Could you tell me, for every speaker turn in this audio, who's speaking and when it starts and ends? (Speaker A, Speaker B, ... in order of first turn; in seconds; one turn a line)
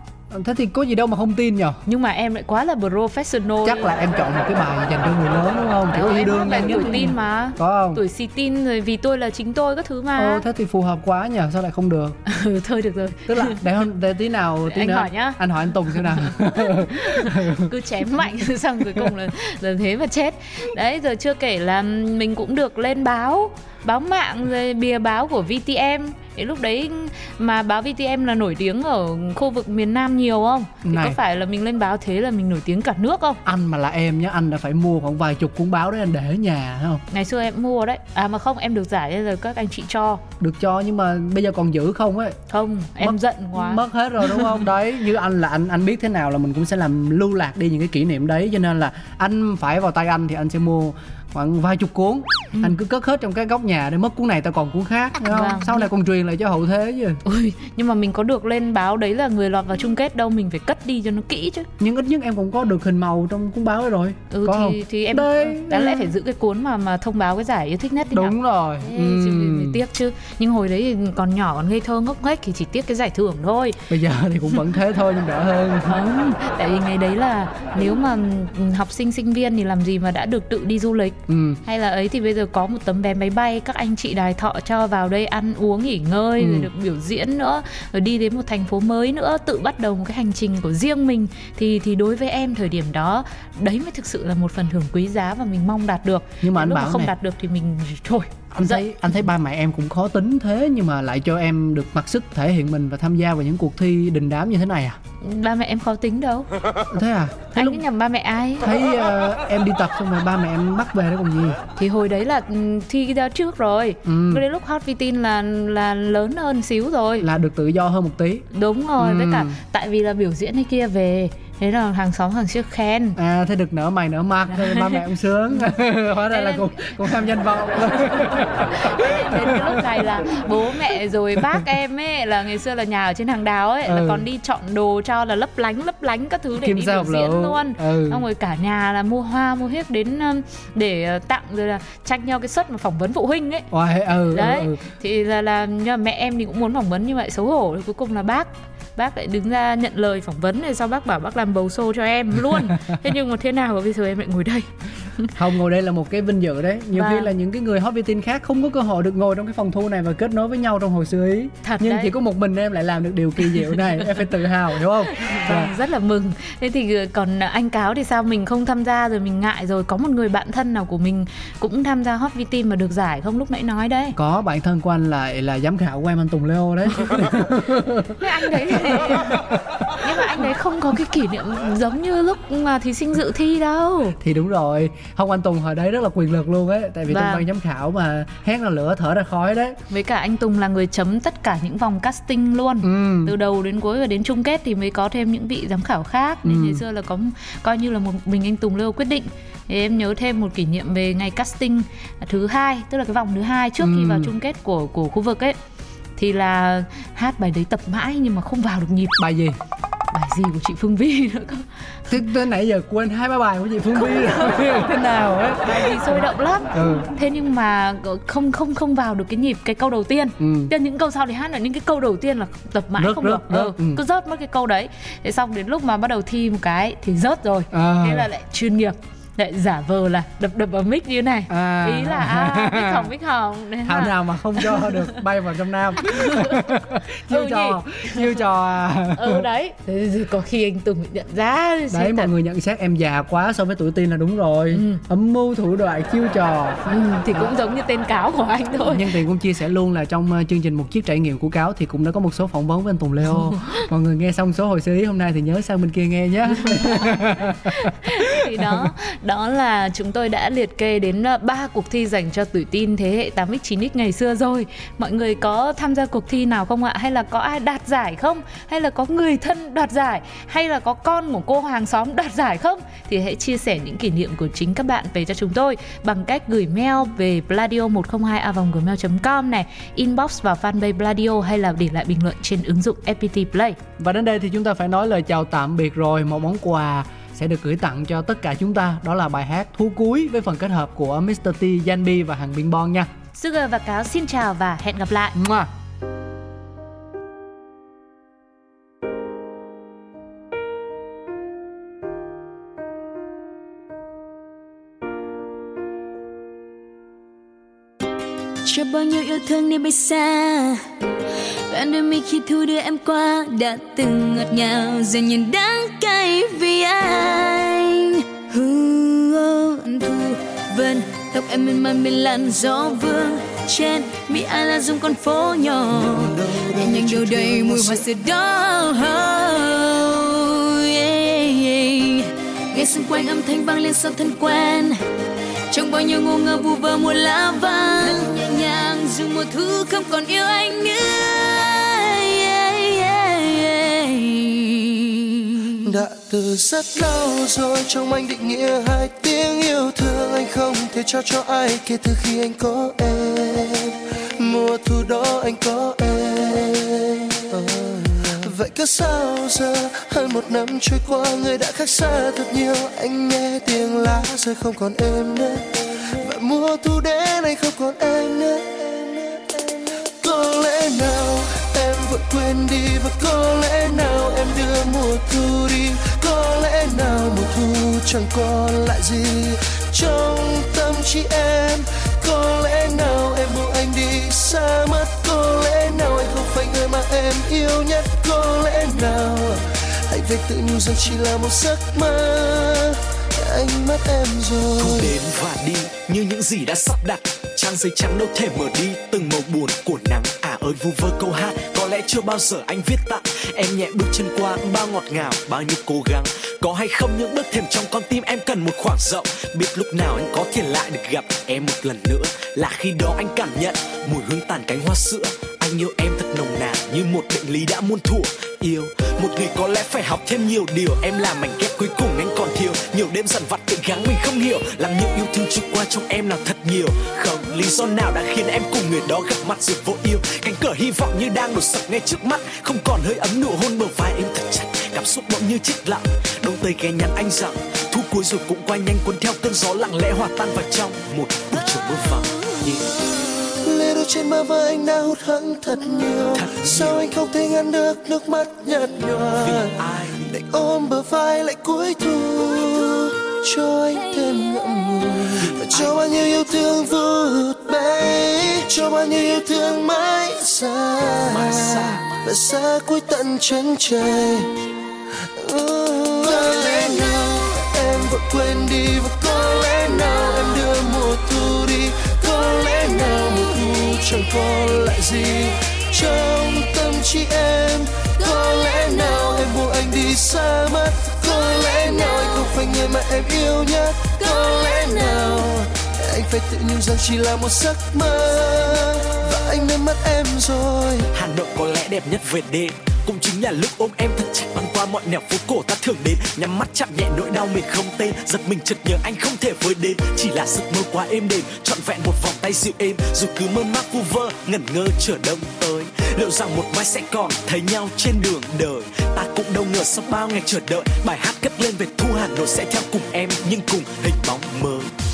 Speaker A: 0.3-1.8
Speaker B: 1.9-3.9
Speaker A: 3.6-8.0
Speaker B: 5.9-10.4
Speaker A: 10.2-12.2
Speaker B: 12.2-13.6
Speaker A: 13.3-17.7
Speaker B: 14.7-33.4
Speaker A: 30.8-31.2
Speaker A: 33.4-37.0
Speaker B: 37.1-40.2
Speaker A: 40.4-42.4
Speaker B: 42.5-44.5
Speaker A: 43.0-57.2
Speaker B: 55.3-55.9
Speaker B: 57.2-61.7
Speaker A: 61.8-66.1
Speaker B: 64.3-73.8
Speaker A: 68.1-69.8
Speaker A: 73.9-76.0
Speaker B: 75.8-98.8
Speaker A: 81.3-81.6
Speaker A: 86.4-86.7
Speaker A: 96.4-97.1
Speaker A: 98.5-105.0
Speaker B: 105.2-106.5
Speaker A: 106.9-107.8
Speaker B: 107.5-108.7
Speaker A: 108.6-111.6
Speaker B: 111.8-117.2
Speaker A: 114.0-114.4
Speaker A: 117.2-118.5
Speaker B: 118.5-123.2
Speaker A: 119.0-119.5
Speaker A: 123.2-130.0
Speaker B: 124.5-125.0
Speaker B: 125.5-127.3
Speaker B: 127.8-143.7
Speaker A: 133.8-134.2
Speaker A: 136.6-138.2
Speaker A: 143.7-144.8
Speaker B: 144.3-155.3
Speaker A: 155.3-165.7
Speaker B: 156.9-157.3
Speaker B: 161.6-162.1
Speaker B: 163.4-164.0
Speaker B: 165.1-174.1
Speaker A: 174.1-180.0
Speaker B: 178.2-179.4
Speaker B: 179.9-184.2
Speaker A: 184.2-189.8
Speaker B: 187.1-187.5
Speaker B: 189.9-205.6
Speaker A: 192.8-193.3
Speaker A: 196.4-196.8
Speaker A: 203.8-204.3
Speaker B: 206.2-209.2
Speaker A: 209.2-209.6
Speaker B: 210.1-211.7
Speaker A: 212.1-217.1
Speaker B: 213.9-214.9
Speaker B: 215.6-235.2
Speaker A: 220.4-220.7
Speaker A: 223.0-224.0
Speaker A: 227.7-228.3
Speaker A: 231.5-233.1
Speaker A: 233.8-239.4
Speaker B: 236.1-236.7
Speaker B: 237.3-238.4
Speaker B: 239.1-242.3
Speaker A: 241.9-247.5
Speaker B: 244.7-245.0
Speaker B: 246.9-249.1
Speaker A: 248.7-258.9
Speaker B: 253.3-253.8
Speaker B: 256.5-283.8
Speaker A: 284.0-293.1
Speaker B: 293.4-295.3
Speaker A: 295.3-295.7
Speaker C: 308.6-310.8
Speaker C: 311.7-335.0
Speaker D: 325.9-328.1
Speaker C: 335.7-345.7
Speaker D: 345.8-395.2
Speaker E: 394.8-442.9
Speaker D: 443.6-464.5
Speaker E: 446.3-447.1
Speaker E: 449.4-450.3
Speaker E: 455.6-456.0
Speaker E: 461.3-462.1
Speaker D: 465.3-491.1
Speaker C: 484.2-485.4
Speaker E: 491.1-514.9